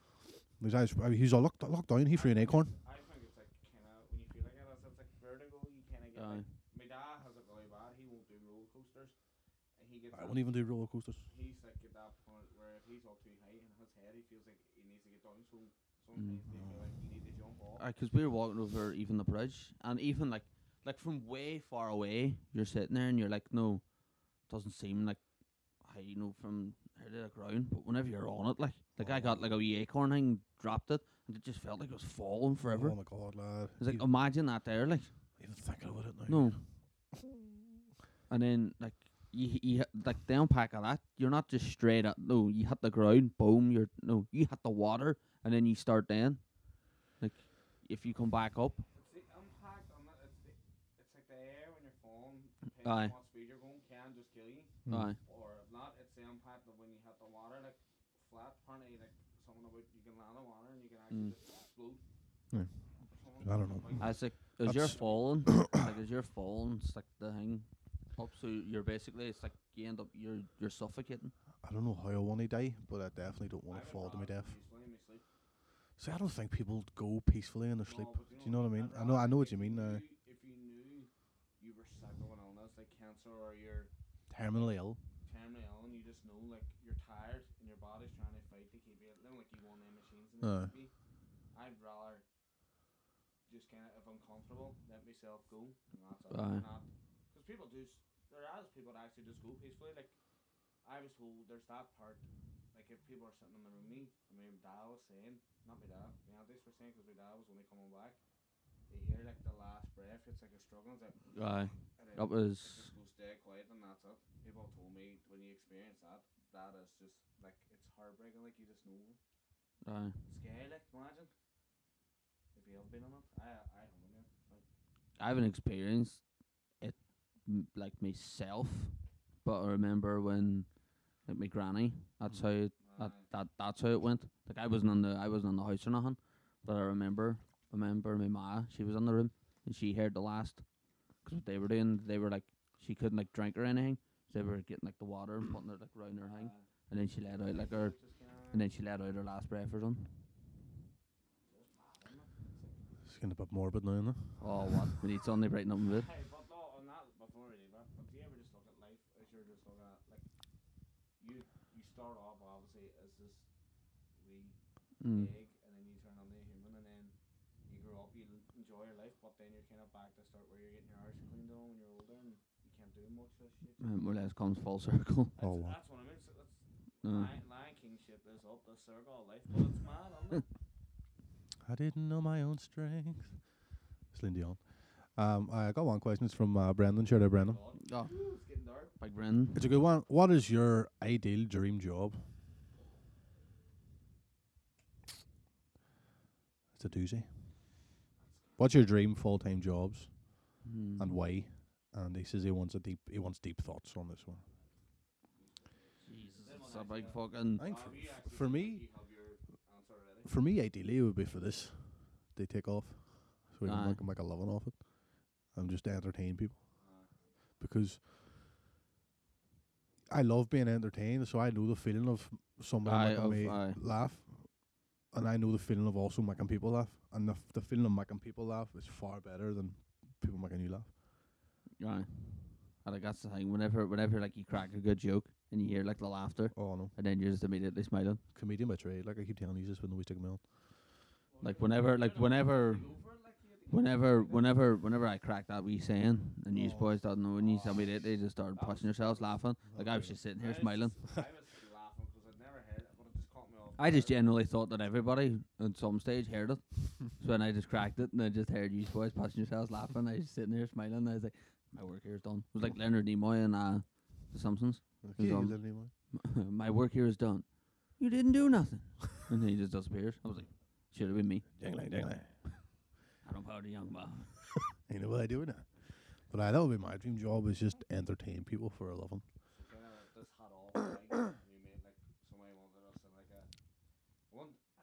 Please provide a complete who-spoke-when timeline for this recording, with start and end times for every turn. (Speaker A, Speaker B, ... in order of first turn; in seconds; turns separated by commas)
Speaker A: 0.4-2.7, Speaker B: 2.1-9.2, Speaker C: 6.1-6.5, Speaker B: 9.8-17.8, Speaker A: 10.1-11.2, Speaker C: 16.1-16.4, Speaker A: 16.5-16.8, Speaker C: 17.8-35.4, Speaker A: 28.9-29.6, Speaker A: 32.7-34.1, Speaker A: 35.4-37.3, Speaker C: 36.3-36.6, Speaker C: 38.3-48.8, Speaker B: 48.9-62.0, Speaker C: 52.8-53.1, Speaker A: 54.8-55.1, Speaker C: 54.9-55.2, Speaker A: 62.5-65.8, Speaker B: 63.0-65.3, Speaker C: 64.0-71.3, Speaker A: 71.6-74.5, Speaker B: 73.7-75.2, Speaker A: 76.0-80.0, Speaker B: 77.8-83.9, Speaker A: 84.3-85.0, Speaker B: 84.4-90.9, Speaker A: 90.4-90.7, Speaker B: 91.5-92.2, Speaker B: 93.5-100.2, Speaker C: 96.3-96.6, Speaker B: 100.8-108.2, Speaker B: 108.9-119.2, Speaker C: 111.3-112.9, Speaker C: 119.8-120.2, Speaker B: 120.3-121.3, Speaker B: 122.5-124.6, Speaker C: 125.2-147.9, Speaker B: 132.8-133.3, Speaker B: 146.2-146.7, Speaker B: 147.2-148.7, Speaker C: 148.5-150.2, Speaker B: 151.5-152.8, Speaker A: 153.0-154.7, Speaker B: 154.3-155.0, Speaker C: 154.4-156.1, Speaker B: 155.9-160.2, Speaker B: 161.2-163.5, Speaker B: 164.2-167.1, Speaker C: 165.0-165.3, Speaker B: 167.7-174.0, Speaker C: 173.8-175.3, Speaker B: 175.3-180.5, Speaker A: 175.4-175.8, Speaker C: 177.0-177.3, Speaker A: 181.6-183.5, Speaker A: 184.1-187.6, Speaker B: 187.3-188.9, Speaker C: 187.8-188.1, Speaker C: 189.0-189.6, Speaker A: 189.5-192.3, Speaker A: 196.7-197.4, Speaker B: 198.2-198.7, Speaker A: 198.6-204.4, Speaker C: 200.6-201.2, Speaker B: 205.3-210.3, Speaker C: 206.0-207.7, Speaker A: 207.6-208.8, Speaker A: 210.2-216.8, Speaker C: 213.6-214.0, Speaker B: 216.8-217.3, Speaker A: 217.6-218.0, Speaker A: 220.1-230.9, Speaker C: 222.8-223.8, Speaker C: 231.8-238.2, Speaker A: 236.5-236.9, Speaker A: 238.3-240.5, Speaker B: 241.3-244.6, Speaker C: 241.4-243.0, Speaker C: 243.7-250.9, Speaker A: 246.5-246.9, Speaker B: 247.3-249.4, Speaker A: 249.7-250.2, Speaker B: 250.4-254.2, Speaker C: 253.8-271.5, Speaker A: 265.0-265.9, Speaker A: 271.6-272.6, Speaker C: 273.2-274.3, Speaker A: 274.8-279.2, Speaker B: 279.5-283.5, Speaker B: 284.3-284.6